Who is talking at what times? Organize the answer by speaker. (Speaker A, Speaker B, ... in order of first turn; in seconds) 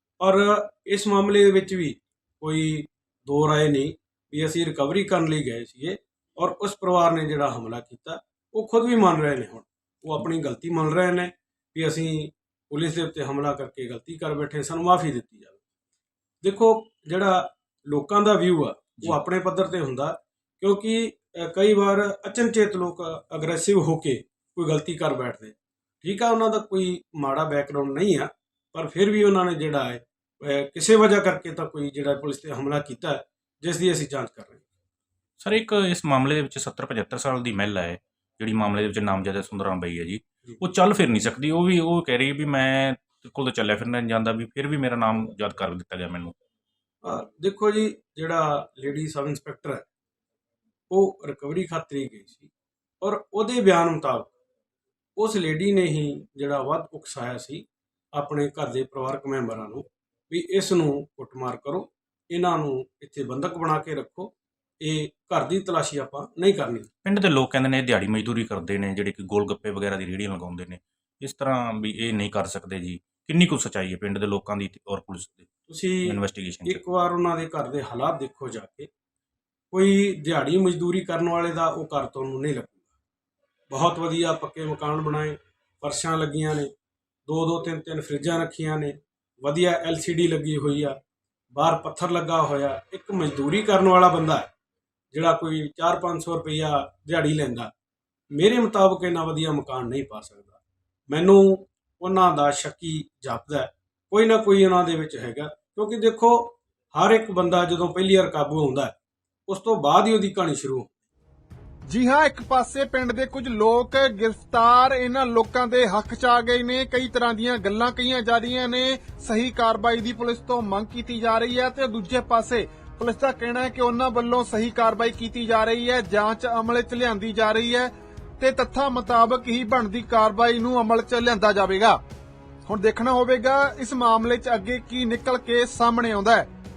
Speaker A: 0.2-15.6, 16.4-34.6, 47.0-49.8, 50.9-52.5, 53.0-54.3, 55.2-66.9, 75.7-78.9, 79.7-82.8, 83.7-86.7, 87.3-91.0, 91.5-94.5, 95.1-97.7, 98.3-100.6, 101.1-108.9, 109.5-110.9
Speaker B: 35.4-46.3, 67.0-75.5, 76.0-76.8
Speaker C: 111.9-132.0, 132.7-136.5